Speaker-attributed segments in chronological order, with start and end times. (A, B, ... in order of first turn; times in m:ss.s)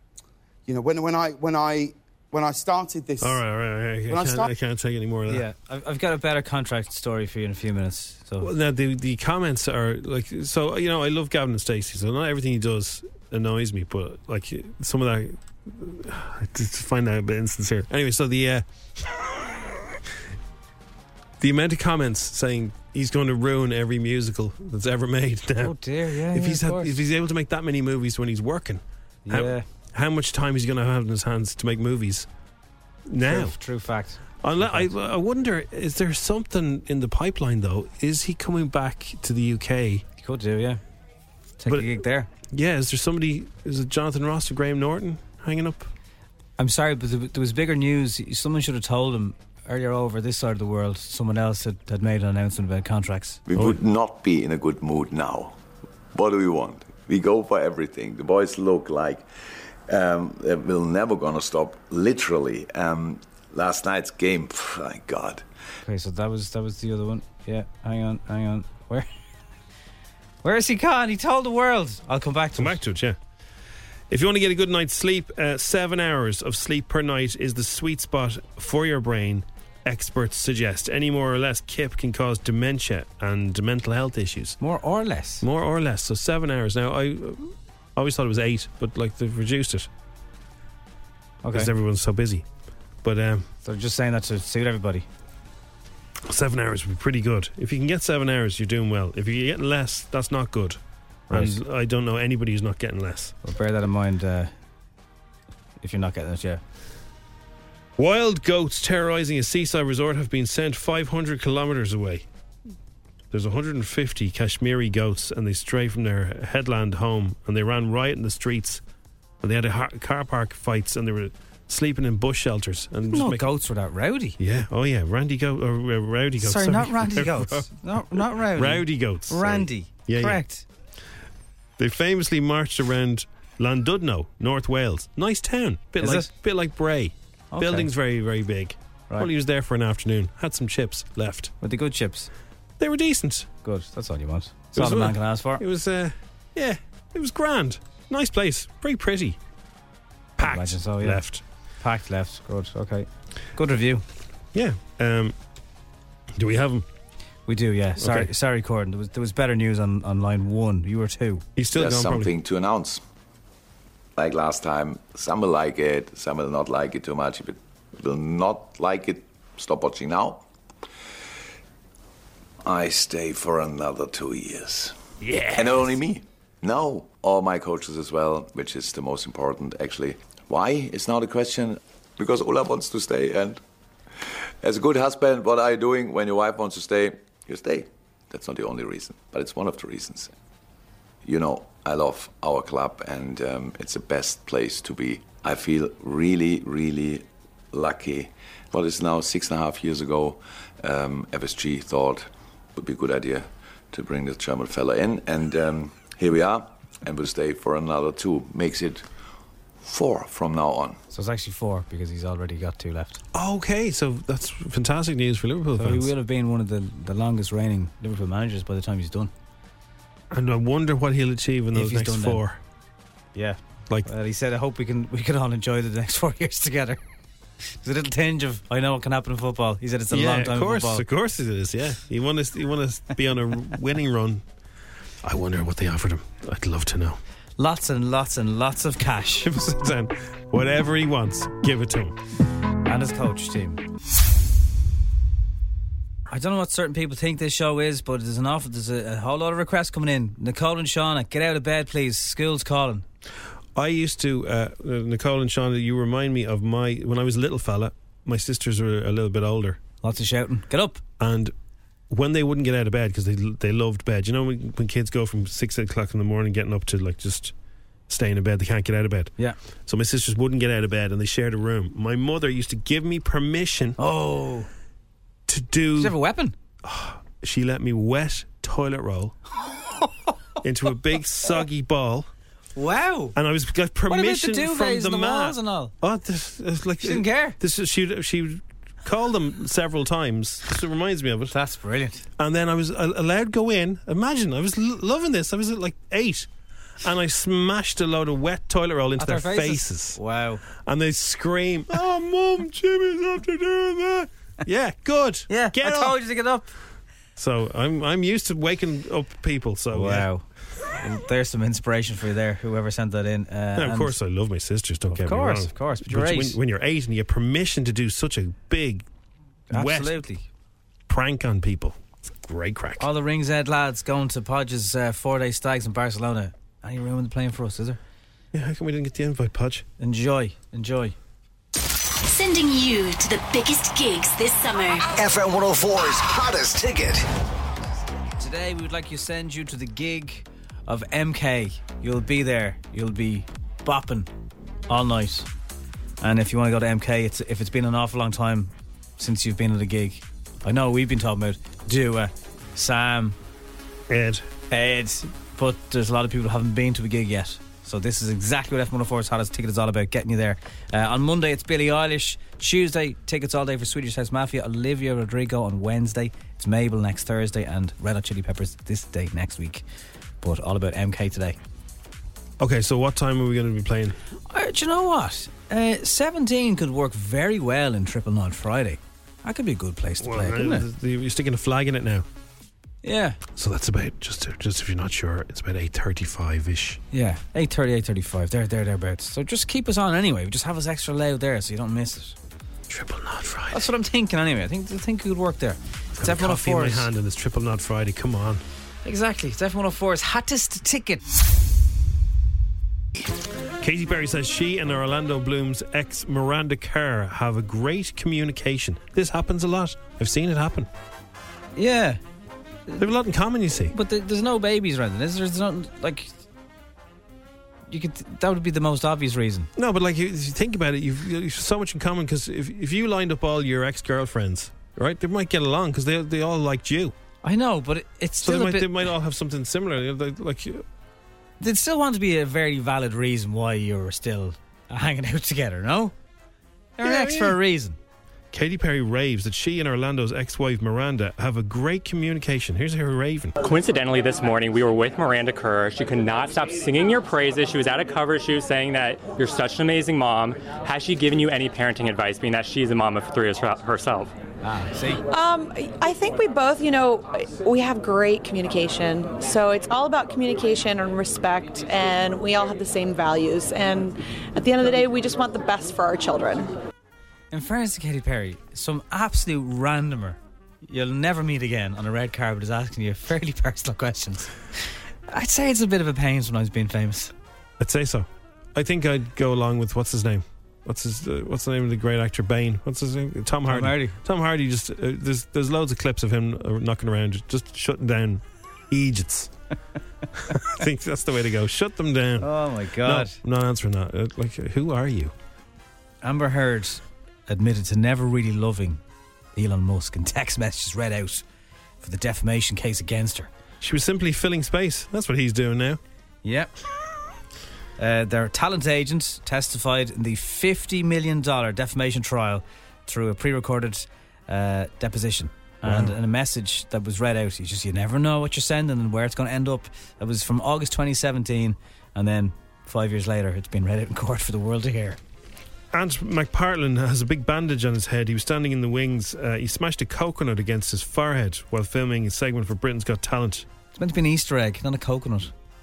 0:00.6-0:03.4 A
0:03.2-0:05.4 B
0:04.1-0:04.5 A
0:05.3-0:08.5 C
0:08.4-0:19.8 B
0:21.4-0:25.7 B
0:25.6-0:27.0 C
0:26.3-0:32.3 B
0:29.2-0:29.6 C
0:33.1-0:33.5 B
0:33.2-0:34.9 C
0:34.4-0:40.0 B
0:40.2-0:40.8 C
0:41.6-0:42.3 C
0:42.5-0:45.9 B
0:46.6-0:53.4 C
0:53.5-0:55.6 D
0:56.1-1:05.4 D
1:05.8-1:09.1 C
1:10.4-1:12.8 C
1:12.6-1:13.2 B
1:14.1-1:24.6 B
1:24.6-1:25.4 C
1:25.4-1:29.9 B
1:31.4-1:31.7 C
1:31.5-1:32.4 B
1:33.0-1:33.4 B
1:33.6-1:35.0 C
1:36.2-1:40.8 B
1:41.3-1:43.3 B
1:41.3-1:41.6 C
1:43.4-1:44.5 C
1:45.8-1:46.6 C
1:48.0-1:52.2 B
1:53.3-1:58.8 B
1:59.4-2:03.5 B
2:03.1-2:04.4 C
2:04.4-2:07.7 B
2:06.4-2:10.6 C
2:08.5-2:10.4 B
2:11.8-2:21.5 B
2:16.0-2:16.3 C
2:17.5-2:17.9 C
2:21.6-2:22.3 C
2:22.8-2:23.5 B
2:23.6-2:25.6 C
2:24.7-2:29.4 B
2:30.4-2:31.4 B
2:30.4-2:31.2 C
2:31.8-2:34.0 C
2:34.5-2:35.3 B
2:36.4-2:36.8 B
2:37.5-2:41.4 C
2:38.0-2:38.3 B
2:41.6-2:42.3 B
2:41.7-2:43.0 D
2:44.2-2:50.4 D
2:52.6-2:55.0 D
2:55.2-2:55.9 B
2:55.6-3:03.6 D
3:04.6-3:10.3 D
3:11.2-3:29.0 D
3:29.8-3:31.0 D
3:31.1-3:33.2 C
3:33.3-3:36.1 B
3:35.8-3:39.3 C
3:40.3-3:42.6 B
3:41.7-3:42.4 C
3:43.3-3:47.0 C
3:47.8-3:51.0 C
3:50.1-3:54.4 B
3:55.2-3:57.2 B
3:57.6-3:59.5 C
3:59.4-4:02.1 B
4:02.8-4:03.8 C
4:06.3-4:13.0 C
4:13.7-4:19.8 B
4:20.0-4:21.0 C
4:21.2-4:21.5 B
4:22.1-4:27.5 B
4:28.1-4:29.3 B
4:29.9-4:34.0 B
4:34.0-4:34.7 C
4:35.5-4:36.1 B
4:36.0-4:36.5 C
4:36.8-4:39.3 B
4:40.6-4:42.3 B
4:42.8-4:43.3 C
4:43.3-4:51.5 B
4:44.1-4:45.9 C
4:47.0-4:47.6 C
4:51.5-4:52.2 C
4:52.4-4:56.5 B
4:57.0-5:00.2 B
4:59.2-5:00.6 C
5:00.8-5:06.2 B
5:05.5-5:06.7 C
5:07.4-5:10.3 B
5:09.9-5:10.5 C
5:11.0-5:14.1 C
5:13.8-5:19.0 B
5:15.1-5:16.6 C
5:19.7-5:20.4 C
5:19.7-5:20.2 B
5:21.1-5:23.0 B
5:23.0-5:28.0 C
5:28.5-5:29.8 B
5:30.0-5:31.1 C
5:32.4-5:35.0 E
5:35.1-5:37.2 F
5:38.4-5:44.3 C
5:44.9-5:45.5 C
5:46.2-5:53.4 C
5:54.1-5:54.5 B
5:54.7-6:09.8 C
6:10.4-6:11.6 C
6:12.6-6:14.2 B
6:14.5-6:20.8 C
6:20.2-6:22.2 B
6:23.0-6:23.4 C
6:23.5-6:27.0 B
6:27.1-6:32.3 C
6:32.9-6:33.8 B
6:33.7-6:37.1 C
6:36.2-6:38.6 B
6:39.0-6:41.2 C
6:43.8-6:50.9 B
6:51.8-6:52.2 C
6:53.0-6:53.9 B
6:53.9-6:56.3 C
6:57.9-6:59.7 C
6:59.8-7:07.1 B
7:07.4-7:09.1 C
7:08.4-7:10.8 B
7:11.6-7:16.1 C
7:17.0-7:18.0 C
7:17.0-7:17.6 B
7:18.5-7:23.6 B
7:23.6-7:34.3 G
7:34.6-7:35.2 C
7:35.3-7:46.7 H
7:47.5-7:54.6 C
7:55.3-7:57.3 C
7:57.8-8:09.5 B
8:03.7-8:04.2 C
8:10.5-8:12.5 B
8:12.4-8:13.4 C
8:13.0-8:15.3 B
8:16.2-8:19.0 C
8:19.5-8:21.4 C
8:22.0-8:23.5 C
8:23.8-8:26.0 B
8:26.4-8:26.7 C
8:28.0-8:45.2 C
8:35.8-8:36.1 B
8:45.9-8:53.6 B
8:53.9-8:55.5 C